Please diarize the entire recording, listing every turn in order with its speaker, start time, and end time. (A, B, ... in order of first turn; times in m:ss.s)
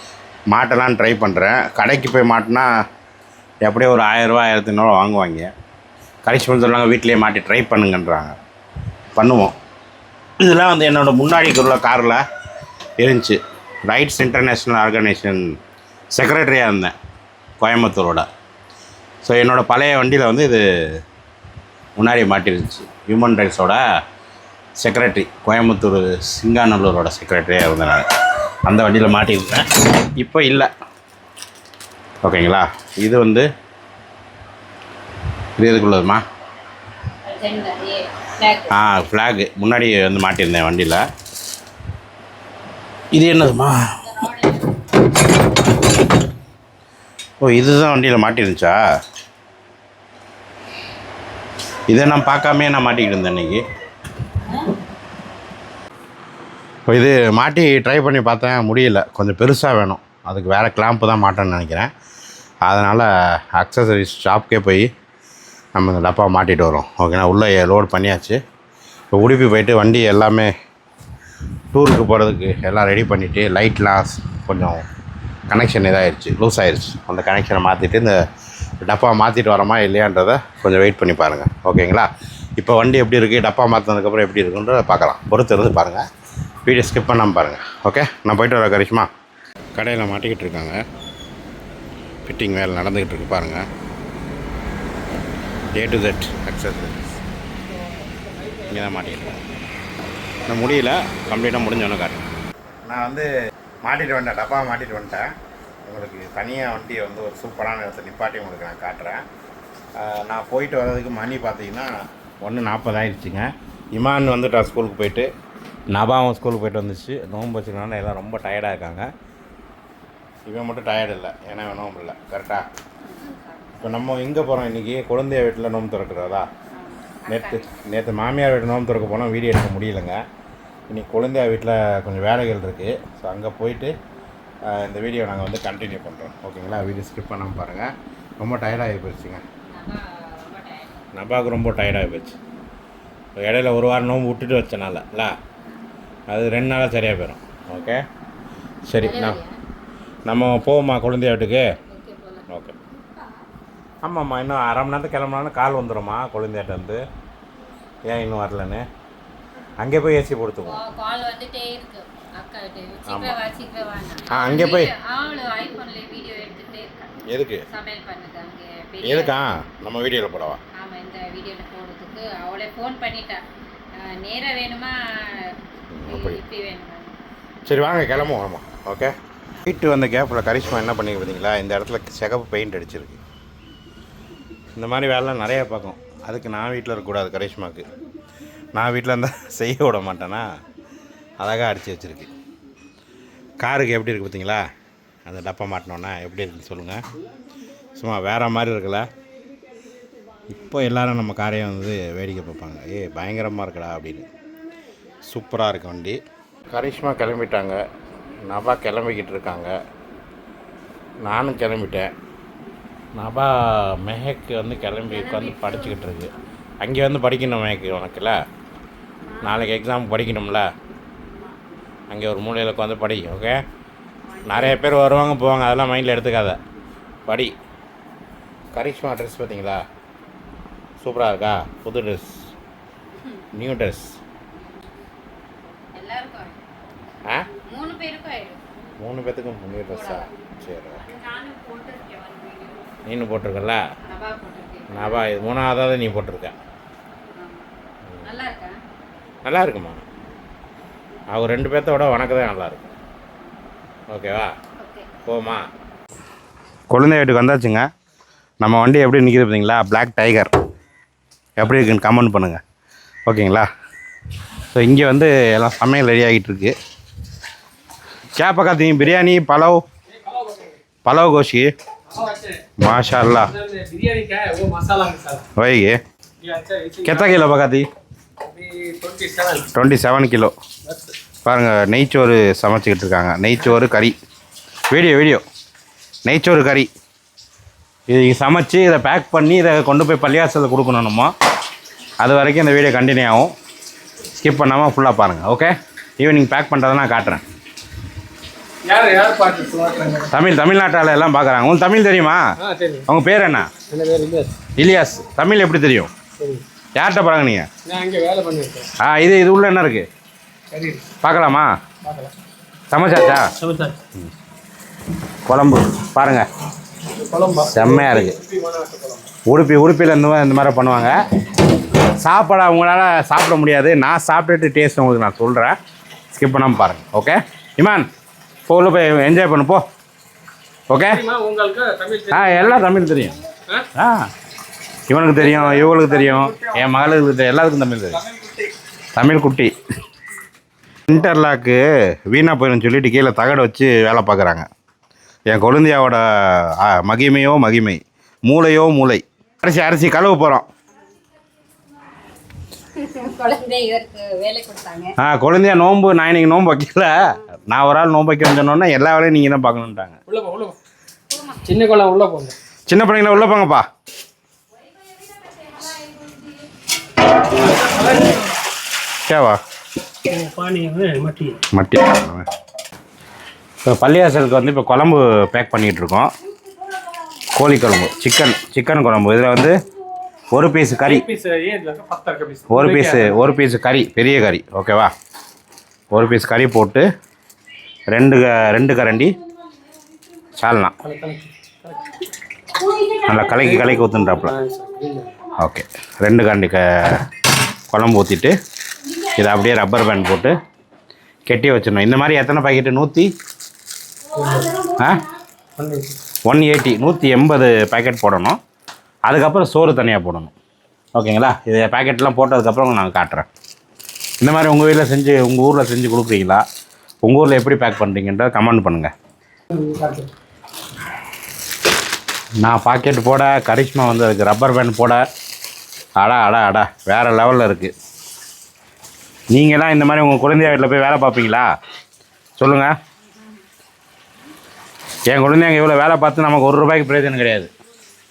0:00.5-0:02.7 A
0:03.6-0:05.5 A
0:06.2-0:08.3 A
0:09.1-0:09.6 A
0:10.4-0:12.2 A
0:13.0-0:15.6 A
0:16.1-0:16.9 A
0:17.6-0:18.3 A
0:19.2-0:20.6 A
0:22.0-0:23.8 A
0:24.8-0:28.0 A
0:28.6-0:30.7 A
0:32.2-0:33.5 A
0:35.6-0:36.2 A
0:37.2-0:38.7 B
0:38.7-0:41.0 A
0:43.1-0:44.0 A
0:44.1-0:44.8 B
0:47.4-0:48.8 A
0:51.9-0:53.6 A
0:56.9-1:01.9 A
1:02.6-1:04.9 A
1:05.7-1:08.4 A
1:09.1-1:10.5 A
1:11.7-1:14.8 A
1:15.5-1:18.2 A
1:18.8-1:26.0 A
1:26.6-1:29.1 A
1:29.8-1:30.8 A
1:32.2-1:33.6 A
1:35.7-1:37.0 A
1:38.7-1:39.4 A
1:40.5-1:42.2 A
1:42.8-1:43.3 A
1:43.8-1:45.3 A
1:45.8-1:49.2 A
1:50.0-1:55.3 A
1:55.9-1:59.1 A
2:00.5-2:02.7 A
2:03.0-2:03.7 B
2:03.8-2:06.5 A
2:06.7-2:07.7 B
2:07.3-2:10.2 A
2:10.9-2:13.9 A
2:14.6-2:19.4 A
2:19.7-2:20.9 B
2:21.1-2:22.4 A
2:23.4-2:25.4 A
2:26.3-2:28.0 A
2:28.9-2:29.4 A
2:29.0-2:29.6 B
2:30.3-2:31.6 A
2:31.9-2:32.4 B
2:32.5-2:32.8 A
2:34.0-2:37.0 A
2:38.1-2:38.8 A
2:39.8-2:40.8 A
2:40.6-2:47.1 B
2:43.1-2:43.3 A
2:44.3-2:44.9 A
2:47.3-2:47.6 A
2:47.7-2:49.3 B
2:49.0-2:50.6 A
2:50.7-2:53.4 B
2:53.9-2:55.6 B
2:55.9-2:56.4 A
2:56.1-2:57.2 B
2:57.6-2:59.1 A
2:59.6-3:03.2 A
3:04.8-3:07.8 A
3:08.7-3:10.5 A
3:11.4-3:12.3 A
3:13.6-3:14.7 A
3:15.2-3:17.0 A
3:18.0-3:19.1 A
3:20.5-3:24.3 A
3:25.3-3:26.2 A
3:26.7-3:27.8 A
3:28.4-3:29.7 A
3:31.2-3:32.1 A
3:33.2-3:38.4 A
3:35.1-3:35.9 B
3:39.2-3:39.6 B
3:39.4-3:40.7 A
3:42.1-3:43.6 A
3:44.3-3:44.8 B
3:44.5-3:46.6 A
3:47.3-3:47.5 A
3:48.7-3:49.8 A
3:51.0-3:52.3 A
3:53.5-3:54.1 A
3:55.9-3:56.6 B
3:57.6-3:58.6 B
3:59.0-4:01.0 A
3:59.9-4:00.3 B
4:01.0-4:02.8 B
4:03.0-4:03.8 A
4:04.0-4:05.3 B
4:04.9-4:06.6 A
4:07.3-4:07.6 B
4:08.2-4:08.8 B
4:09.4-4:10.0 A
4:11.3-4:12.9 A
4:14.1-4:14.5 A
4:14.8-4:15.1 B
4:15.2-4:15.6 A
4:16.9-4:17.9 A
4:18.6-4:20.5 A
4:21.6-4:22.6 A
4:23.3-4:23.7 A
4:24.7-4:26.7 A
4:28.4-4:29.8 A
4:30.1-4:30.8 C
4:31.0-4:31.7 A
4:32.1-4:32.6 C
4:32.8-4:33.5 A
4:33.5-4:35.4 C
4:35.6-4:36.0 A
4:36.4-4:37.4 C
4:37.0-4:37.9 A
4:38.5-4:39.7 C
4:39.7-4:40.5 A
4:40.8-4:41.1 C
4:41.4-4:44.1 A
4:44.9-4:45.4 A
4:46.2-4:46.9 A
4:48.1-4:51.3 A
4:52.2-4:53.5 A
4:54.4-4:57.4 A
4:58.9-5:00.3 C
5:00.3-5:02.4 A
5:02.6-5:03.1 C
5:03.1-5:03.7 A
5:03.9-5:04.5 C
5:04.8-5:06.1 A
5:07.0-5:07.7 A
5:07.8-5:08.9 C
5:09.0-5:10.1 A
5:10.7-5:11.1 C
5:11.2-5:11.7 A
5:12.0-5:12.3 C
5:12.9-5:13.5 A
5:13.6-5:14.0 C
5:15.4-5:16.5 A
5:17.1-5:19.3 C
5:17.7-5:18.3 A
5:19.4-5:21.2 A
5:22.2-5:25.8 A
5:26.3-5:28.1 A
5:28.7-5:29.8 A
5:30.9-5:31.2 A
5:31.1-5:32.8 C
5:32.3-5:33.4 A
5:33.9-5:34.3 A
5:35.1-5:38.2 A
5:35.4-5:36.7 C
5:38.3-5:38.7 C
5:39.1-5:39.7 A
5:41.1-5:44.7 A
5:45.5-5:50.7 A
5:53.0-5:55.1 B
5:55.2-5:57.2 A
5:57.7-6:00.2 A
6:00.3-6:00.8 C
6:01.6-6:02.5 C
6:02.9-6:03.8 A
6:07.5-6:08.4 C
6:09.2-6:09.6 A
6:10.3-6:11.6 C
6:11.7-6:12.5 A
6:13.8-6:16.3 A
6:17.5-6:19.8 A
6:20.5-6:21.2 A
6:21.0-6:23.4 C
6:22.7-6:25.1 A
6:26.1-6:27.1 A
6:28.1-6:29.4 A
6:30.6-6:30.9 A
6:31.0-6:32.0 C
6:33.2-6:34.5 A
6:33.5-6:35.3 C
6:35.6-6:37.2 A
6:37.9-6:38.5 A
6:39.4-6:40.5 A
6:41.5-6:43.3 A
6:44.3-6:44.9 C
6:45.8-6:46.2 C
6:46.5-6:48.6 A
6:49.3-6:50.5 A
6:51.1-6:53.5 A
6:54.4-6:56.6 A
6:57.2-6:59.1 A
6:59.7-7:00.3 C
7:02.6-7:05.2 A
7:06.2-7:07.9 A
7:09.5-7:11.7 A
7:12.6-7:12.9 A
7:15.3-7:17.7 A